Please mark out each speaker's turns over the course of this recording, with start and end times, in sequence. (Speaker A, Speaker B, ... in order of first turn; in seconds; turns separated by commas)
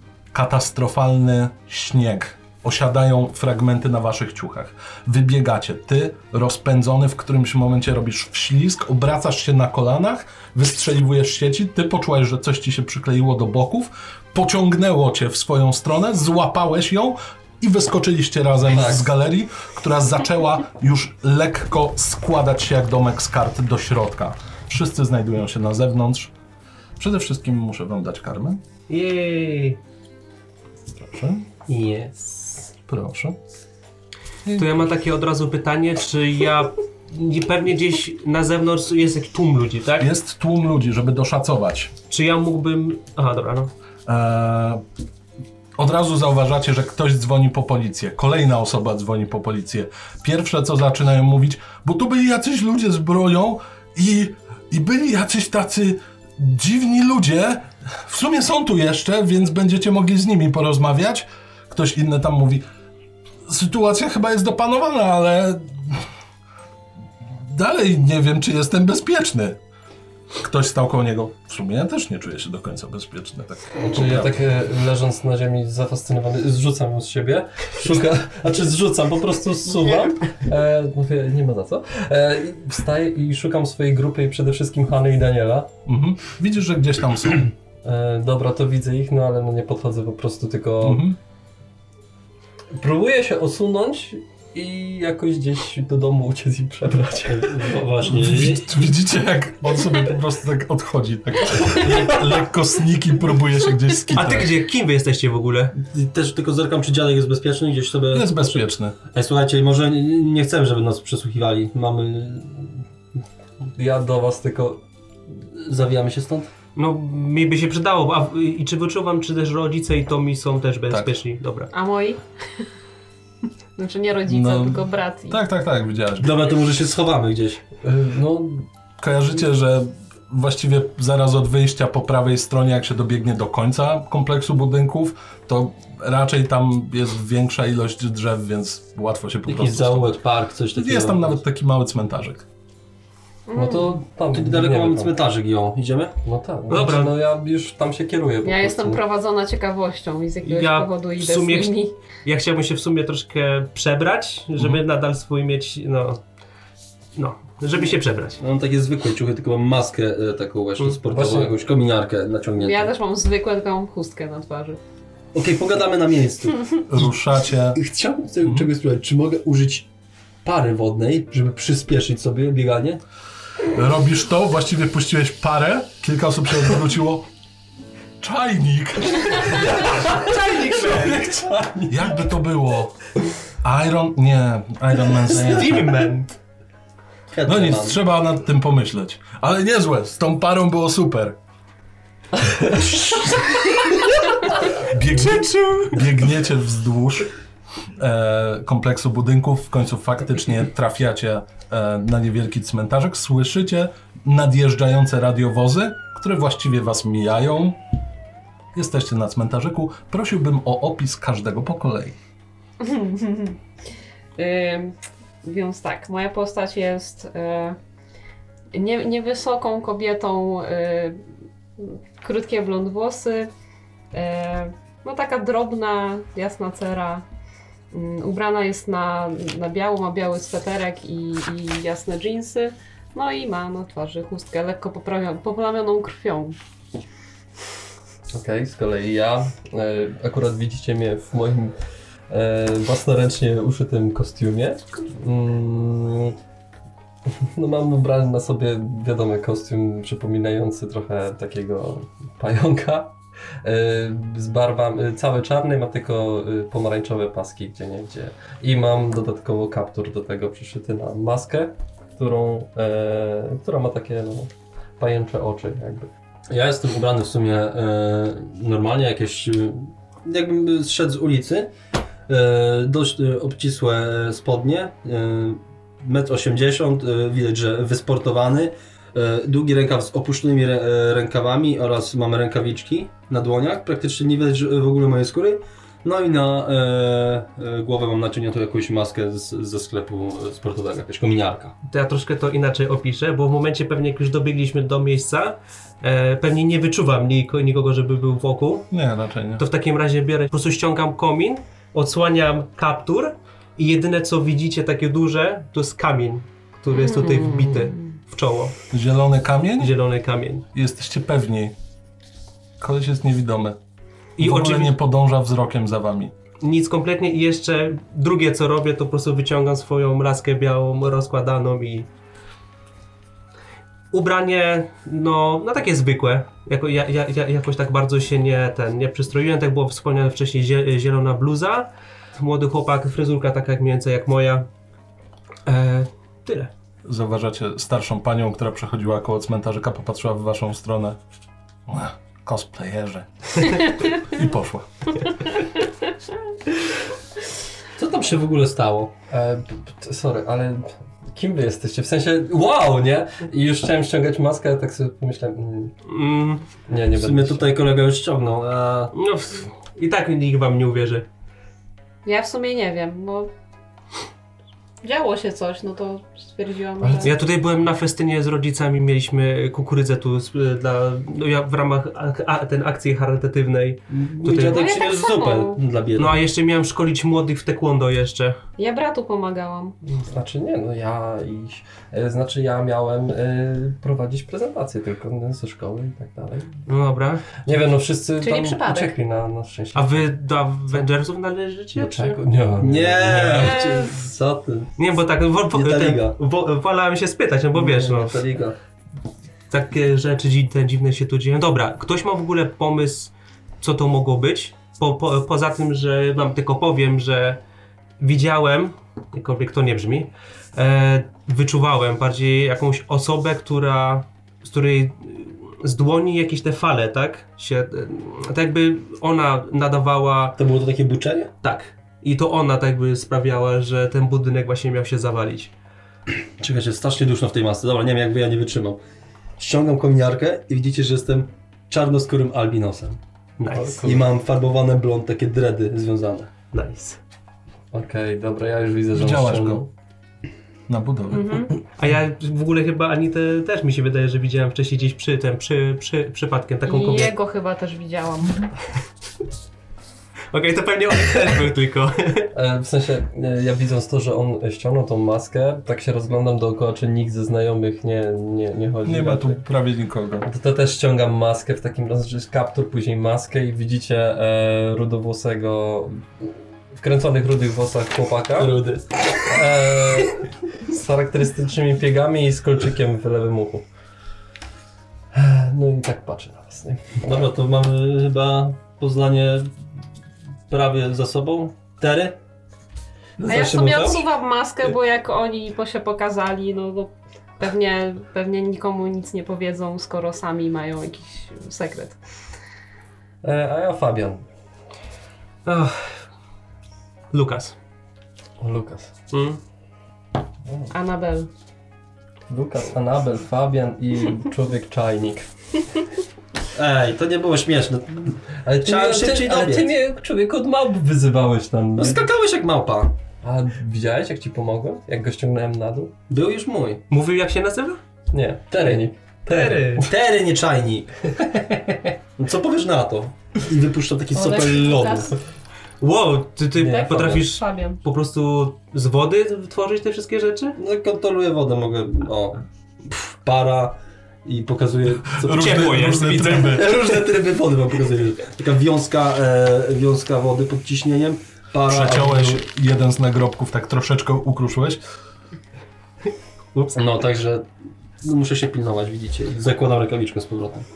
Speaker A: 0.3-26.3, Speaker B: 18.7-19.1, Speaker A: 27.0-28.6, Speaker C: 28.9-29.8, Speaker A: 31.0-31.5, Speaker C: 31.7-32.7, Speaker A: 32.9-33.4, Speaker A: 34.5-34.8, Speaker C: 34.5-40.1, Speaker A: 40.0-41.9, Speaker C: 42.1-43.7, Speaker A: 44.1-44.8, Speaker A: 45.8-62.6, Speaker A: 63.5-66.0, Speaker A: 67.4-69.6, Speaker A: 70.4-74.5, Speaker B: 73.8-85.7, Speaker A: 85.9-87.5, Speaker B: 87.8-91.1, Speaker A: 90.8-91.2, Speaker B: 92.8-97.8, Speaker D: 97.3-98.9, Speaker A: 98.1-104.5, Speaker C: 104.1-105.8, Speaker D: 105.8-112.7, Speaker A: 108.1-109.0, Speaker B: 113.8-114.8, Speaker D: 115.6-116.5, Speaker C: 116.8-121.7, Speaker A: 120.9-121.2, Speaker E: 121.7-122.2, Speaker E: 123.8-125.4, Speaker A: 124.3-126.4, Speaker D: 126.2-127.6, Speaker B: 127.8-128.7, Speaker A: 129.0-140.2, Speaker D: 139.5-141.4, Speaker A: 140.7-142.4, Speaker E: 143.5-144.0, Speaker B: 143.5-145.2, Speaker D: 144.3-146.2, Speaker B: 146.2-149.0, Speaker C: 146.7-147.2, Speaker E: 148.4-151.9, Speaker C: 150.4-156.2, Speaker C: 157.2-158.4, Speaker D: 158.4-162.9, Speaker B: 161.1-161.6, Speaker E: 162.6-164.8, Speaker D: 165.3-166.9, Speaker A: 166.9-167.8, Speaker D: 167.8-169.9, Speaker D: 170.4-173.0, Speaker A: 173.6-177.3, Speaker A: 178.2-180.0, Speaker C: 179.9-181.4, Speaker D: 181.0-181.9, Speaker A: 181.9-183.0, Speaker A: 183.6-186.1, Speaker C: 185.4-186.3, Speaker D: 187.3-188.0, Speaker A: 187.5-191.4, Speaker A: 192.7-193.2, Speaker A: 194.6-197.3, Speaker C: 195.1-196.0, Speaker A: 198.0-207.8, Speaker A: 208.7-212.2, Speaker E: 212.8-213.6, Speaker E: 214.4-217.8, Speaker E: 218.7-221.2, Speaker E: 221.8-223.5, Speaker E: 224.1-227.2, Speaker E: 227.9-236.6, Speaker B: 238.3-241.8, Speaker B: 242.3-246.4, Speaker B: 247.3-266.1, Speaker D: 266.5-271.7, Speaker D: 272.3-291.7, Speaker C: 291.9-298.9, Speaker A: 298.9-299.6, Speaker C: 299.6-308.8, Speaker E: 306.9-308.0, Speaker A: 308.9-309.9, Speaker C: 309.8-310.6, Speaker A: 310.7-311.7, Speaker A: 312.8-313.8, Speaker C: 314.4-315.0, Speaker A: 314.4-316.3, Speaker C: 316.6-322.1, Speaker C: 324.1-334.7, Speaker C: 335.7-336.7, Speaker A: 337.1-341.2, Speaker A: 341.9-345.1, Speaker D: 348.0-349.1, Speaker B: 349.3-355.9, Speaker C: 356.1-356.7, Speaker B: 356.9-357.7, Speaker D: 357.1-359.1, Speaker C: 359.1-361.3, Speaker E: 362.2-363.5, Speaker E: 365.0-367.3, Speaker B: 367.0-367.3, Speaker C: 367.2-374.9, Speaker D: 374.1-376.4, Speaker E: 374.6-375.8, Speaker C: 376.2-378.6, Speaker E: 378.8-380.0, Speaker B: 380.0-386.9, Speaker C: 386.9-387.6, Speaker B: 387.6-390.3, Speaker E: 388.4-389.2, Speaker C: 389.9-392.4, Speaker B: 391.9-393.8, Speaker D: 392.8-394.9, Speaker E: 393.6-394.1, Speaker C: 395.0-398.4, Speaker D: 395.7-396.4, Speaker D: 397.8-398.8, Speaker C: 399.7-407.6, Speaker C: 408.2-420.6, Speaker D: 420.6-421.5, Speaker C: 421.6-425.7, Speaker D: 426.6-429.0, Speaker D: 429.6-433.2, Speaker C: 433.6-434.1, Speaker B: 433.7-434.3, Speaker D: 434.0-436.5, Speaker C: 436.7-437.2, Speaker B: 437.9-439.9, Speaker A: 439.1-439.8, Speaker A: 440.9-441.7, Speaker E: 441.3-441.7, Speaker C: 442.0-447.4, Speaker E: 446.9-448.7, Speaker C: 450.5-452.5, Speaker B: 452.5-459.6, Speaker A: 459.1-460.5, Speaker B: 460.4-468.8, Speaker D: 468.6-469.1, Speaker B: 469.4-473.9, Speaker B: 475.3-477.2, Speaker D: 477.2-479.7, Speaker D: 480.7-482.4, Speaker D: 483.4-484.3, Speaker E: 483.5-492.2, Speaker B: 493.4-494.5, Speaker C: 495.6-496.2, Speaker C: 497.3-497.8, Speaker B: 498.6-499.1, Speaker C: 499.3-499.6, Speaker B: 500.7-500.9, Speaker E: 500.9-501.5, Speaker B: 502.5-505.4, Speaker D: 506.7-509.9, Speaker B: 508.6-512.3, Speaker D: 512.0-513.1, Speaker B: 513.4-516.1, Speaker D: 516.3-517.0, Speaker C: 517.1-518.0, Speaker B: 518.3-520.0, Speaker D: 518.7-519.0, Speaker C: 519.5-520.1, Speaker D: 520.0-521.8, Speaker D: 522.4-525.4, Speaker E: 524.3-525.4, Speaker C: 526.0-530.8, Speaker E: 526.8-528.0, Speaker D: 530.8-542.6, Speaker A: 535.3-537.0, Speaker C: 535.5-536.8, Speaker A: 541.9-545.0, Speaker D: 546.9-547.7, Speaker D: 548.2-550.9